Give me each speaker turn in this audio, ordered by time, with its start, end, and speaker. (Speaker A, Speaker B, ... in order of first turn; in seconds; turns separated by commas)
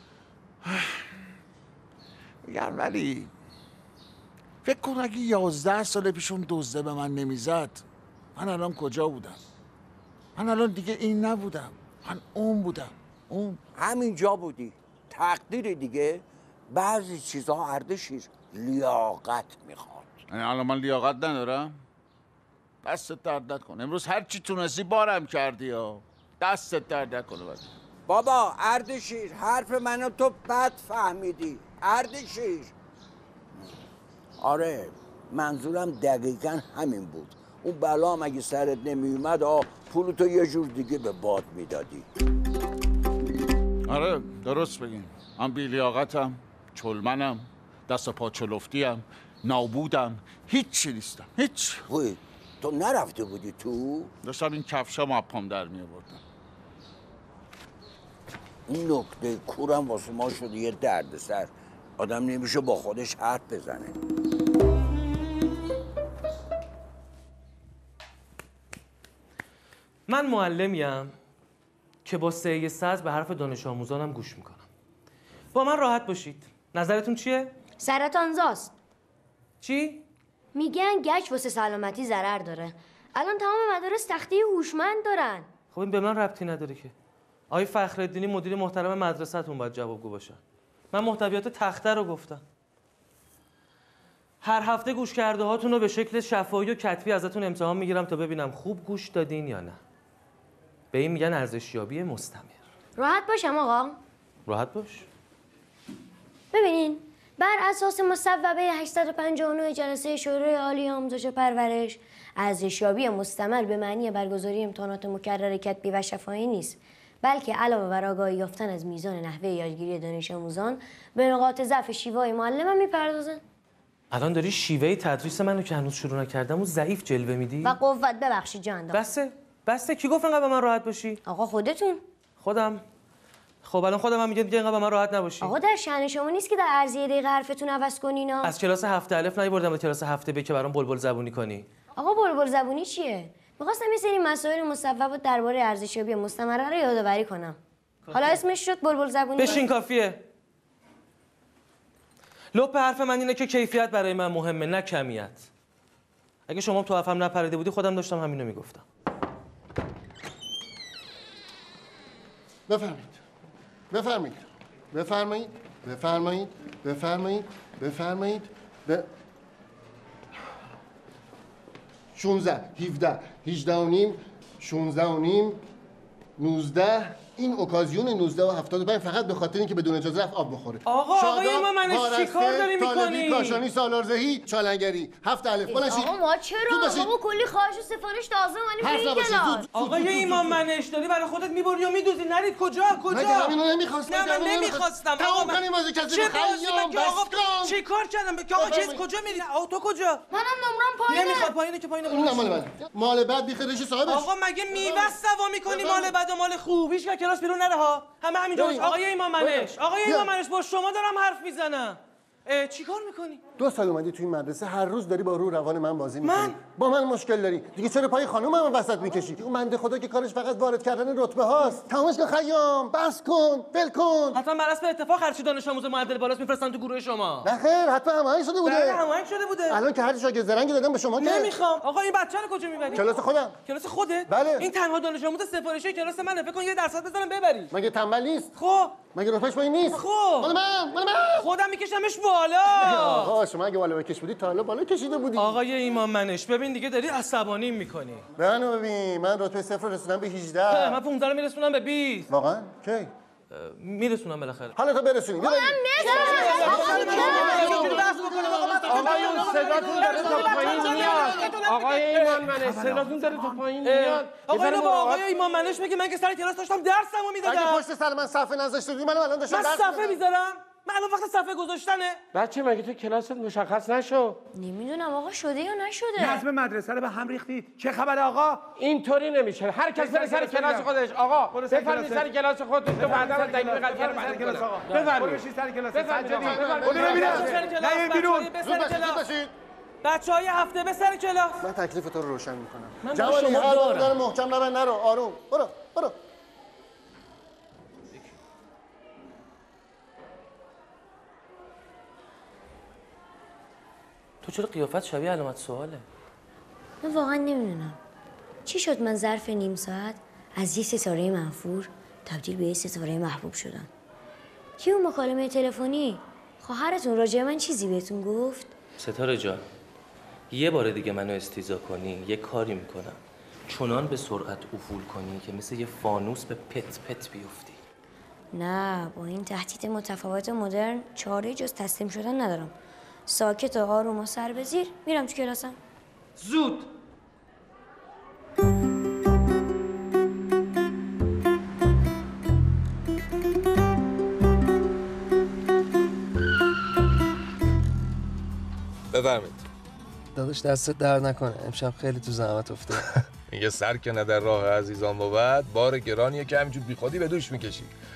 Speaker A: 0.6-1.1, Speaker A: 2.5-3.3, Speaker A: 4.6-7.8, Speaker A: 8.4-9.4, Speaker A: 10.4-13.6, Speaker B: 13.8-20.1, Speaker A: 20.3-21.8, Speaker A: 22.8-27.7, Speaker B: 28.1-32.7, Speaker B: 34.4-42.1, Speaker A: 43.9-51.9, Speaker B: 51.9-54.1, Speaker A: 54.2-56.2, Speaker B: 58.7-63.9, Speaker C: 70.1-71.1, Speaker C: 72.0-74.7, Speaker C: 75.5-77.5, Speaker D: 77.8-78.7, Speaker C: 79.6-80.0, Speaker D: 80.5-85.5, Speaker C: 85.7-86.9, Speaker C: 87.5-90.4, Speaker C: 90.9-92.4, Speaker C: 94.4-99.8, Speaker C: 100.9-102.6, Speaker D: 103.0-104.0, Speaker C: 104.5-105.1, Speaker D: 106.5-123.4, Speaker C: 124.1-127.8, Speaker D: 127.6-129.0, Speaker C: 128.9-131.2, Speaker D: 131.2-132.0, Speaker C: 132.4-132.8, Speaker C: 133.6-135.5, Speaker D: 135.4-138.5, Speaker C: 138.4-141.7, Speaker D: 141.9-147.6, Speaker C: 148.1-148.4, Speaker D: 148.1-149.6, Speaker C: 149.4-150.2, Speaker C: 152.5-155.4, Speaker C: 156.5-158.8, Speaker E: 162.7-163.2, Speaker E: 163.9-169.1, Speaker E: 172.1-175.6, Speaker E: 176.4-186.1, Speaker C: 180.9-183.6, Speaker D: 185.7-189.6, Speaker E: 186.7-187.1, Speaker E: 188.8-190.6, Speaker C: 189.7-193.5, Speaker E: 193.1-197.8, Speaker C: 194.1-200.2, Speaker E: 198.6-199.0, Speaker D: 200.3-201.5, Speaker C: 201.1-202.6, Speaker E: 202.0-205.1, Speaker C: 204.1-213.4, Speaker E: 205.7-206.1, Speaker E: 208.5-210.3, Speaker E: 213.6-224.4, Speaker C: 216.2-216.6, Speaker C: 224.3-227.5, Speaker E: 227.4-229.0, Speaker C: 228.6-229.8, Speaker E: 229.7-231.5, Speaker C: 231.2-233.1, Speaker E: 232.9-233.6, Speaker C: 233.7-237.7, Speaker E: 234.3-234.7, Speaker E: 237.7-238.5, Speaker C: 238.6-239.0, Speaker E: 239.1-241.5, Speaker C: 239.9-240.5, Speaker C: 241.4-243.3, Speaker E: 242.7-245.6, Speaker C: 245.4-248.2, Speaker E: 248.4-251.0, Speaker C: 250.7-252.3, Speaker E: 252.3-253.1, Speaker C: 253.5-254.7, Speaker E: 254.8-261.5, Speaker D: 255.4-257.8, Speaker C: 256.0-262.4, Speaker F: 258.9-265.2, Speaker C: 263.8-267.8, Speaker E: 267.4-270.2, Speaker C: 269.5-272.2, Speaker F: 272.3-274.4, Speaker D: 274.5-276.4, Speaker G: 276.2-278.7, Speaker F: 278.8-287.5, Speaker G: 279.9-280.9, Speaker G: 281.5-282.3, Speaker G: 282.9-288.5, Speaker E: 286.4-287.6, Speaker C: 287.0-289.2, Speaker E: 288.6-289.5, Speaker C: 290.0-291.6, Speaker E: 291.6-296.1, Speaker C: 293.0-294.2, Speaker C: 304.4-306.0, Speaker D: 307.0-308.0, Speaker D: 308.6-313.9, Speaker D: 314.8-318.7, Speaker C: 319.0-319.6, Speaker C: 320.5-327.8, Speaker D: 328.5-332.7, Speaker D: 333.3-335.8, Speaker C: 336.4-336.9, Speaker H: 349.1-349.6, Speaker I: 350.4-353.0, Speaker H: 353.5-357.9